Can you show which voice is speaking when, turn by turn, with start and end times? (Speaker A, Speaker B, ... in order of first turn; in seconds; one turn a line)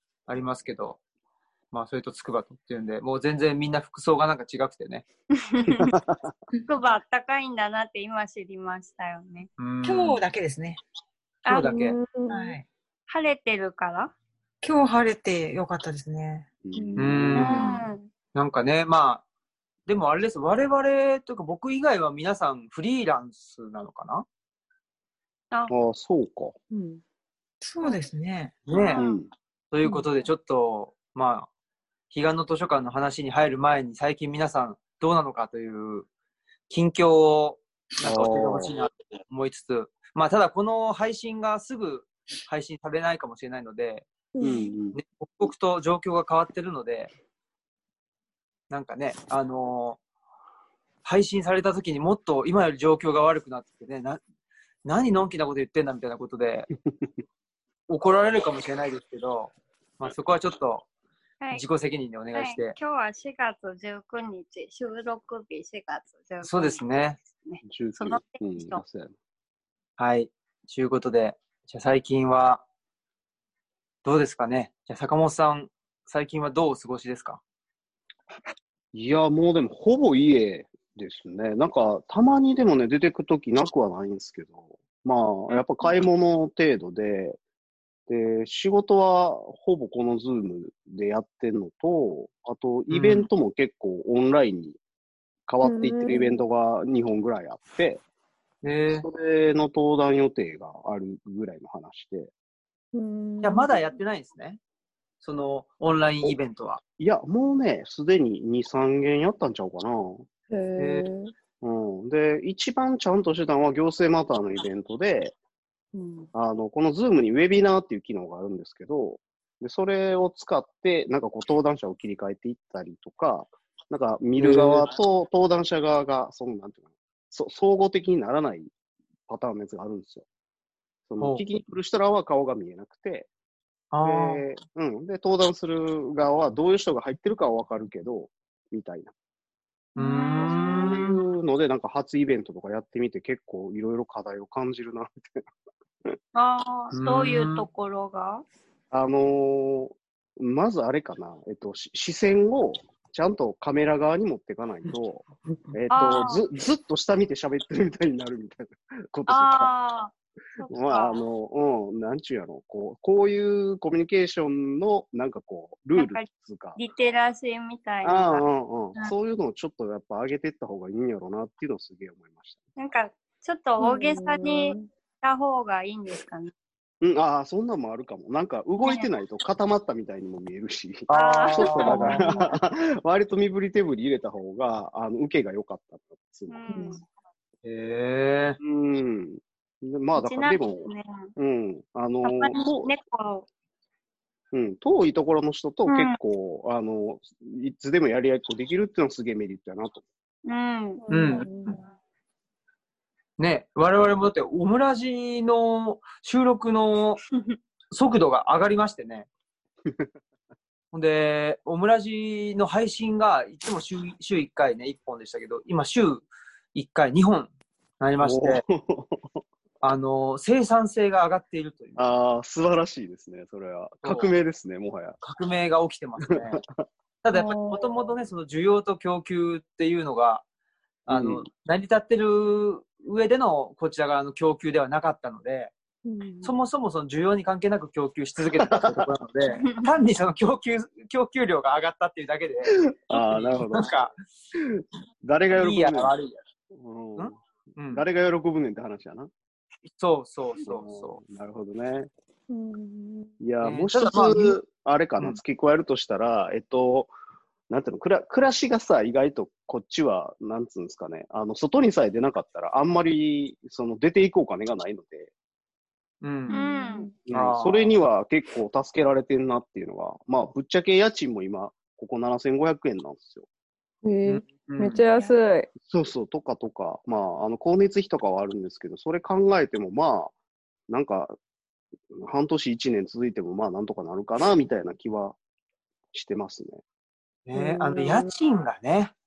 Speaker A: 0.3-1.0
Speaker A: 1.7-5.0
Speaker B: 5.4-5.9
Speaker C: 5.7-6.3
Speaker B: 6.7-9.5
Speaker A: 9.6-10.2
Speaker D: 9.8-10.8
Speaker B: 11.5-11.8
Speaker A: 11.5-12.0
Speaker E: 11.7-12.6
Speaker D: 12.3-12.7
Speaker B: 13.1-14.1
Speaker D: 14.6-16.5
Speaker C: 16.6-17.6
Speaker E: 16.7-17.6
Speaker A: 17.0-17.8
Speaker B: 17.4-18.1
Speaker A: 18.4-19.2
Speaker A: 19.9-24.2
Speaker C: 25.7-26.6
Speaker E: 26.7-27.0
Speaker D: 27.6-28.6
Speaker A: 28.7-29.0
Speaker B: 28.7-29.2
Speaker C: 28.9-29.3
Speaker A: 29.7-31.5
Speaker A: 32.1-36.1
Speaker A: 36.7-44.1
Speaker C: 38.0-38.7
Speaker E: 44.4-44.7
Speaker C: 44.4-45.0
Speaker A: 45.0-47.1
Speaker A: 48.7-50.0
Speaker A: 51.0-54.2
Speaker A: 54.9-56.7
Speaker A: 57.9-60.9
Speaker A: 61.5-62.8
Speaker B: 62.3-68.8
Speaker A: 66.4-67.2
Speaker C: 67.7-69.1
Speaker A: 70.0-72.6
Speaker A: 74.0-77.4
Speaker C: 78.9-87.4
Speaker C: 88.1-94.8
Speaker A: 92.9-93.3
Speaker C: 95.5-98.0
Speaker E: 95.6-96.4
Speaker A: 98.6-99.1
Speaker C: 99.0-102.3
Speaker E: 102.9-104.0
Speaker A: 103.4-104.6
Speaker A: 105.2-106.8
Speaker C: 107.0-110.2
Speaker E: 110.5-111.3
Speaker A: 110.8-111.1
Speaker C: 111.6-115.3
Speaker E: 115.9-116.3
Speaker C: 116.3-128.7
Speaker A: 124.4-124.9
Speaker C: 129.3-130.3
Speaker C: 131.1-133.3
Speaker A: 133.9-134.5
Speaker C: 134.0-139.1
Speaker B: 140.0-141.1
Speaker A: 140.0-141.2
Speaker C: 140.6-145.1
Speaker B: 146.3-148.4
Speaker A: 146.9-147.7
Speaker C: 148.9-159.7
Speaker B: 155.9-156.4
Speaker B: 159.3-161.2
Speaker C: 160.7-166.8
Speaker B: 166.0-168.4
Speaker C: 168.0-172.6
Speaker B: 172.8-176.5
Speaker E: 173.8-174.9
Speaker C: 177.0-186.7
Speaker B: 178.8-179.1
Speaker A: 181.1-182.3
Speaker B: 181.1-181.9
Speaker E: 182.1-182.4
Speaker B: 186.5-187.0
Speaker E: 186.7-187.0
Speaker A: 187.6-188.6
Speaker C: 188.6-192.9
Speaker B: 190.2-191.3
Speaker B: 192.2-193.5
Speaker C: 194.5-200.1
Speaker B: 195.9-196.2
Speaker B: 200.5-201.0
Speaker E: 201.0-201.8
Speaker A: 201.1-201.8
Speaker A: 203.4-207.2
Speaker A: 207.9-209.3
Speaker A: 210.9-218.6
Speaker C: 218.2-219.2
Speaker A: 219.8-222.1
Speaker C: 222.0-225.2
Speaker A: 224.0-224.3
Speaker A: 225.2-226.6
Speaker C: 226.3-226.6
Speaker A: 227.2-230.4
Speaker E: 227.3-227.9
Speaker C: 231.1-231.4
Speaker A: 231.1-235.7
Speaker E: 236.1-236.5
Speaker A: 236.4-244.1
Speaker C: 238.6-239.1
Speaker C: 243.1-243.9
Speaker C: 244.6-246.1
Speaker A: 245.6-246.3
Speaker C: 246.7-249.3
Speaker A: 247.2-248.0
Speaker A: 250.0-251.2
Speaker C: 250.6-252.1
Speaker E: 252.5-253.4
Speaker C: 253.4-257.1
Speaker A: 253.6-254.6
Speaker C: 257.7-265.3
Speaker A: 266.2-266.6
Speaker E: 266.5-267.1
Speaker B: 266.5-267.1
Speaker C: 267.3-273.5
Speaker A: 267.3-268.0
Speaker E: 274.0-275.7
Speaker A: 274.3-275.0
Speaker C: 275.8-280.3
Speaker C: 280.9-281.3
Speaker C: 282.1-285.4
Speaker C: 286.1-286.8
Speaker A: 287.5-289.1
Speaker E: 287.5-288.3